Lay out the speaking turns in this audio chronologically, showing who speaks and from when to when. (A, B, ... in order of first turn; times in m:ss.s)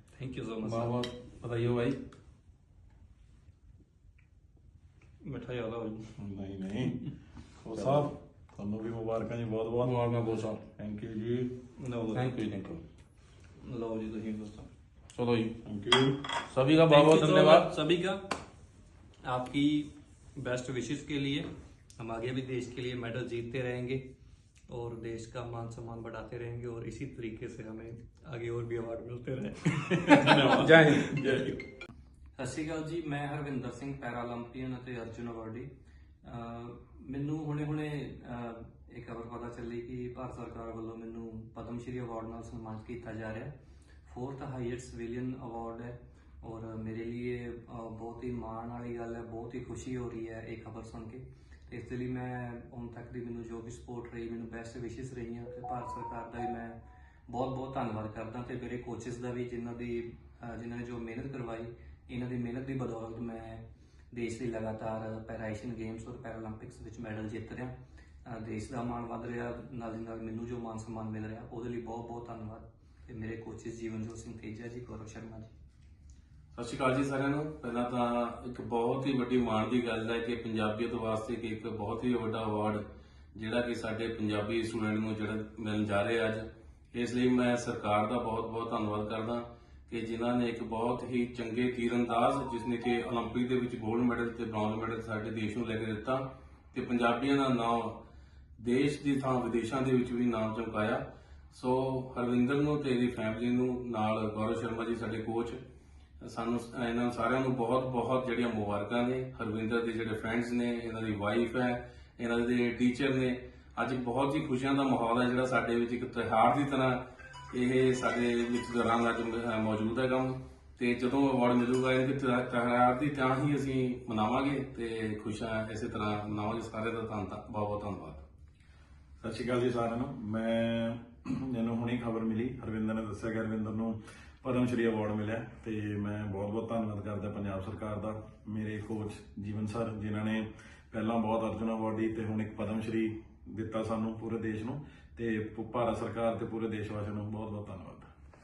0:00.2-0:01.0 A
0:00.6-0:02.0 B
0:05.2-0:06.1 A
0:06.2-0:07.0 C
0:07.6-0:10.0 C
0:09.8-0:10.7 B
0:10.7-0:11.6 C
0:11.8-0:12.4 A
0:12.1-0:12.8 B
0:13.6-0:14.7 A
0:15.2-0:15.6 B
0:15.6-0:16.2 C
0:16.4-0:17.7 B
0:16.9-0:18.3 A
0:19.2-0:24.1 A
0:24.7-0:30.8 A
0:30.2-0:31.6 C
0:30.5-0:31.3 B
0:32.4-0:35.7 A
0:36.2-0:43.5 A
0:44.1-0:56.8 A
0:57.3-1:07.7 A
1:08.2-1:15.5 A
1:16.5-1:22.8 B
1:23.4-1:38.0 B
1:38.6-1:45.6 B
1:46.2-2:08.2 B
2:09.2-2:28.1 C